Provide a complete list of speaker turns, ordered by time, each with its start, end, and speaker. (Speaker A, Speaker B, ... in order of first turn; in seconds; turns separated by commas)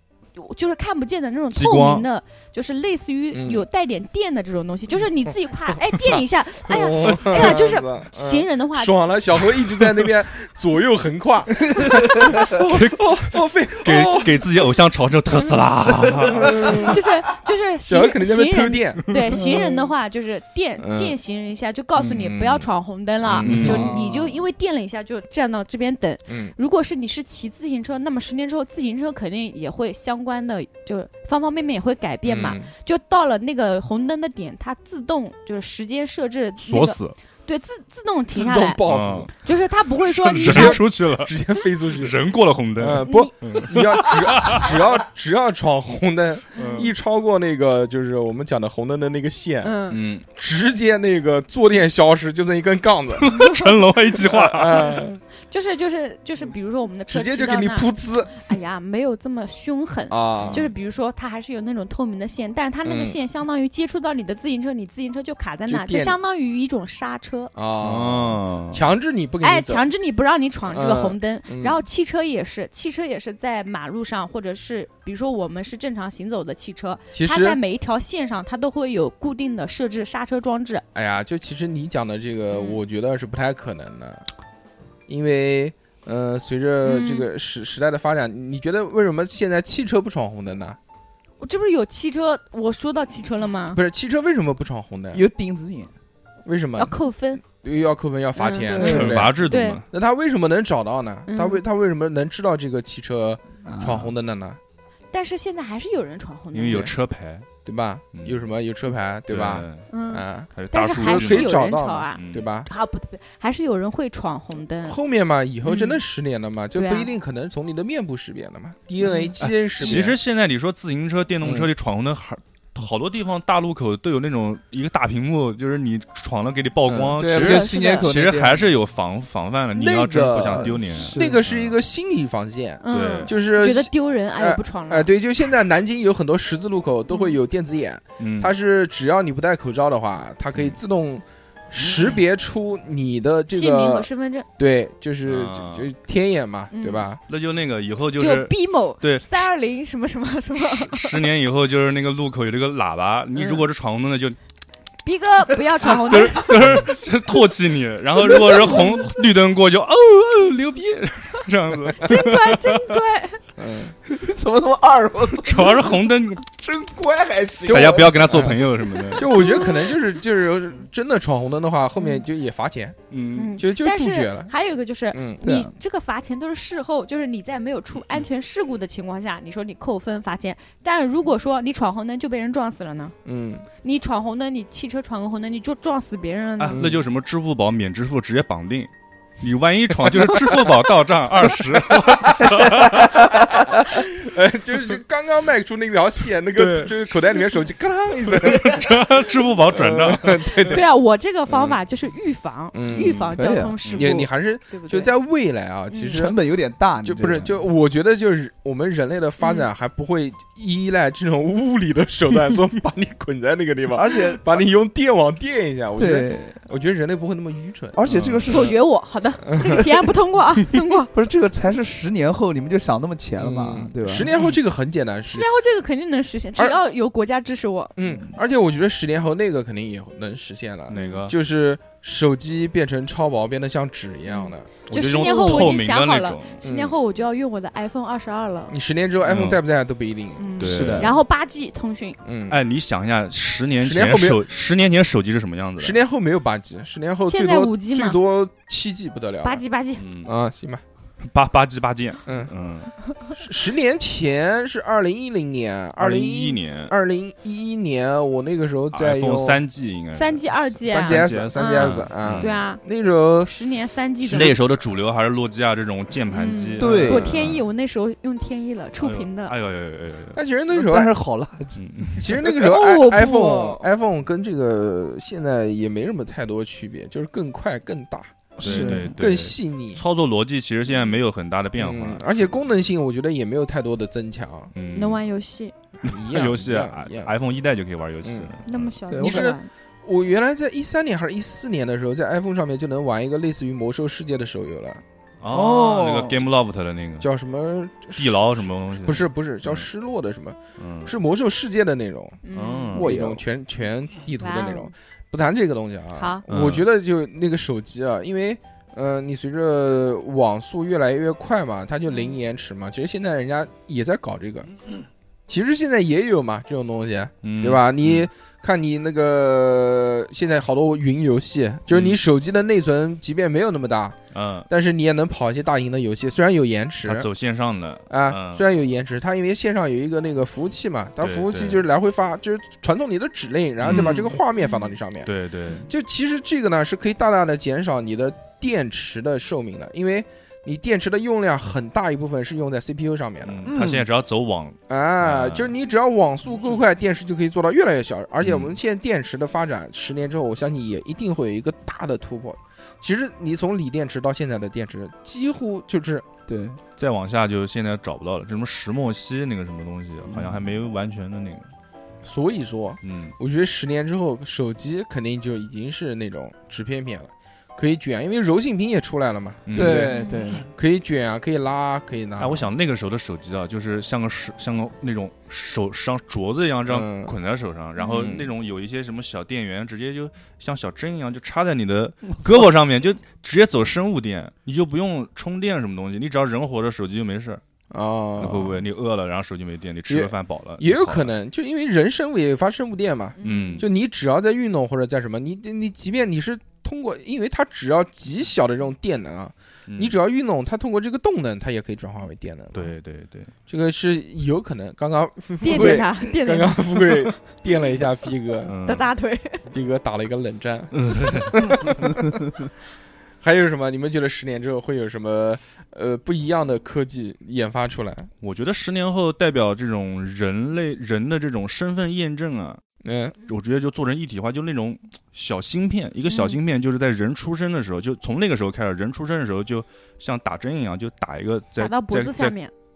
Speaker A: 0.3-8.9, Speaker B: 1.5-2.1, Speaker C: 3.3-3.6, Speaker C: 6.7-14.4, Speaker B: 7.3-7.6, Speaker D: 11.8-12.4, Speaker B: 12.4-16.9, Speaker C: 16.3-17.0, Speaker A: 16.6-40.8, Speaker C: 17.9-19.1, Speaker C: 20.8-21.2, Speaker C: 21.9-22.6, Speaker B: 23.2-23.9, Speaker C: 23.3-24.0, Speaker D: 23.5-24.4, Speaker C: 32.2-32.7, Speaker B: 36.6-37.1, Speaker C: 38.3-39.3, Speaker B: 38.8-39.3, Speaker B: 40.0-44.9, Speaker C: 40.4-42.1, Speaker C: 42.8-53.4, Speaker A: 43.0-43.3, Speaker B: 46.5-46.9, Speaker A: 46.6-46.9, Speaker A: 49.6-50.0, Speaker B: 49.9-50.2, Speaker B: 53.2-55.0, Speaker C: 54.2-55.2, Speaker A: 55.5-67.5, Speaker C: 57.1-58.3, Speaker C: 60.1-60.7, Speaker B: 60.4-60.6, Speaker C: 62.8-63.2, Speaker C: 65.7-66.2, Speaker C: 67.5-69.8, Speaker B: 67.8-68.8, Speaker A: 69.4-80.8, Speaker C: 70.7-71.8, Speaker C: 77.1-77.6, Speaker C: 80.9-84.2, Speaker A: 82.5-82.8, Speaker C: 85.1-90.8, Speaker A: 86.8-87.3, Speaker A: 91.4-93.8, Speaker C: 93.7-95.2, Speaker D: 95.1-95.9, Speaker C: 96.4-104.6, Speaker A: 96.8-97.4, Speaker A: 98.3-99.8, Speaker D: 98.7-99.2, Speaker B: 98.7-99.8, Speaker A: 101.3-101.6, Speaker D: 103.6-104.1, Speaker A: 105.1-106.9, Speaker B: 106.5-107.5, Speaker C: 107.6-112.7, Speaker B: 108.1-108.4, Speaker B: 109.3-109.9, Speaker A: 109.9-115.0, Speaker B: 110.5-111.6, Speaker B: 112.1-112.5, Speaker C: 114.8-120.2, Speaker A: 115.6-116.0, Speaker A: 116.7-117.1, Speaker A: 119.0-120.0, Speaker B: 119.7-131.8, Speaker C: 121.4-121.7, Speaker C: 126.9-127.2, Speaker D: 127.2-128.7, Speaker A: 127.3-128.1, Speaker C: 129.7-147.2, Speaker D: 130.6-131.4, Speaker A: 132.8-135.1, Speaker B: 132.9-133.3, Speaker A: 137.1-137.4, Speaker B: 138.2-138.5, Speaker A: 143.5-144.5, Speaker B: 145.2-145.9, Speaker A: 146.7-147.1, Speaker B: 147.3-149.5, Speaker A: 148.2-151.2, Speaker B: 150.6-154.4, Speaker A: 155.0-156.8, Speaker B: 155.8-162.9, Speaker A: 158.3-159.0, Speaker A: 162.0-163.4, Speaker C: 163.6-163.9, Speaker D: 164.1-168.3, Speaker B: 165.4-166.4, Speaker C: 167.7-173.0, Speaker B: 167.7-169.3, Speaker A: 169.4-169.8, Speaker B: 173.1-173.6, Speaker A: 173.3-183.1, Speaker C: 173.6-174.5, Speaker C: 175.1-175.4, Speaker D: 175.4-175.7, Speaker C: 183.2-183.7, Speaker A: 183.8-186.8, Speaker B: 186.6-188.9, Speaker C: 186.7-187.0, Speaker B: 189.4-193.4, Speaker C: 190.1-190.7, Speaker C: 191.7-199.1, Speaker D: 193.5-193.8, Speaker B: 196.5-197.4, Speaker B: 198.2-200.8, Speaker C: 199.7-200.9, Speaker A: 200.6-205.1, Speaker C: 201.5-201.8, Speaker C: 202.7-203.3, Speaker B: 202.9-204.1, Speaker D: 203.3-203.8, Speaker C: 203.9-206.4, Speaker A: 205.9-206.2, Speaker D: 206.1-207.6, Speaker C: 207.0-218.7, Speaker A: 209.4-209.7, Speaker D: 213.9-214.4, Speaker D: 216.0-216.6, Speaker D: 217.9-218.7, Speaker B: 218.1-218.7, Speaker A: 218.5-221.1, Speaker C: 219.4-219.9, Speaker D: 221.1-224.3, Speaker C: 223.4-225.5, Speaker A: 225.3-227.9, Speaker C: 227.9-234.7, Speaker B: 230.9-231.3, Speaker A: 230.9-231.2, Speaker A: 234.3-238.7, Speaker B: 234.9-236.6, Speaker C: 236.6-236.9, Speaker C: 238.7-240.9, Speaker B: 239.2-239.6, Speaker A: 240.4-242.2, Speaker B: 240.6-241.2, Speaker D: 240.6-241.1, Speaker C: 242.2-242.6, Speaker B: 242.5-246.0, Speaker C: 243.8-244.4, Speaker C: 245.8-249.6, Speaker A: 247.3-248.2, Speaker A: 249.4-250.0, Speaker B: 249.9-250.3, Speaker C: 250.2-250.8, Speaker B: 251.2-252.9, Speaker C: 252.2-252.5, Speaker C: 253.3-259.6, Speaker B: 256.0-256.9, Speaker B: 258.9-262.6, Speaker A: 260.1-262.8, Speaker C: 260.9-263.5, Speaker A: 263.4-264.6, Speaker C: 264.2-264.6, Speaker B: 264.2-267.6, Speaker A: 266.3-269.5, Speaker D: 266.8-267.3, Speaker C: 266.9-267.6, Speaker B: 269.0-270.4, Speaker C: 270.3-271.1, Speaker D: 270.7-272.1, Speaker B: 271.8-272.3, Speaker C: 272.2-280.0, Speaker A: 272.5-273.9, Speaker D: 278.6-279.1, Speaker B: 278.6-282.6, Speaker C: 281.8-284.7, Speaker B: 284.7-285.2, Speaker A: 284.9-285.7, Speaker C: 286.0-287.3, Speaker B: 286.0-289.0, Speaker C: 288.2-288.5, Speaker A: 288.6-289.7, Speaker D: 289.1-289.5, Speaker C: 289.1-295.0, Speaker B: 295.4-297.3, Speaker D: 295.5-296.4, Speaker C: 297.2-302.4, Speaker B: 298.1-299.8, Speaker B: 300.8-301.1, Speaker A: 302.4-303.0, Speaker B: 302.5-303.1, Speaker C: 302.9-314.7, Speaker D: 302.9-303.4, Speaker A: 304.4-304.9, Speaker A: 306.1-306.4, Speaker B: 306.5-306.9, Speaker A: 312.1-312.4, Speaker C: 315.5-324.2, Speaker B: 317.4-318.3, Speaker B: 321.9-322.2, Speaker B: 324.3-324.7, Speaker C: 324.7-327.3, Speaker B: 327.0-328.6, Speaker C: 328.1-335.3, Speaker B: 331.2-331.8, Speaker B: 333.8-334.3, Speaker B: 335.2-335.8, Speaker C: 335.9-343.7, Speaker B: 343.4-345.7, Speaker D: 343.7-344.0, Speaker C: 344.9-356.2, Speaker B: 348.4-348.8, Speaker D: 356.5-356.8, Speaker B: 357.0-361.7, Speaker D: 360.3-360.7, Speaker C: 362.2-370.1, Speaker B: 363.0-363.3, Speaker B: 369.6-370.1, Speaker D: 369.7-370.6, Speaker A: 370.1-370.6, Speaker C: 370.7-372.7, Speaker B: 372.4-387.6, Speaker C: 376.9-377.3, Speaker A: 378.0-378.3, Speaker C: 378.1-378.5, Speaker C: 387.9-388.8, Speaker B: 388.4-391.3, Speaker C: 390.1-402.9, Speaker A: 393.4-393.9, Speaker B: 393.4-393.9, Speaker B: 399.9-400.1, Speaker B: 402.7-403.5, Speaker C: 403.7-408.7, Speaker A: 405.6-407.2, Speaker B: 408.7-409.1, Speaker A: 408.8-409.6, Speaker C: 409.7-412.2, Speaker B: 410.9-411.8, Speaker C: 413.4-418.3, Speaker B: 418.4-422.8, Speaker C: 423.0-423.3, Speaker B: 423.4-432.6, Speaker A: 426.3-426.6, Speaker A: 431.8-432.7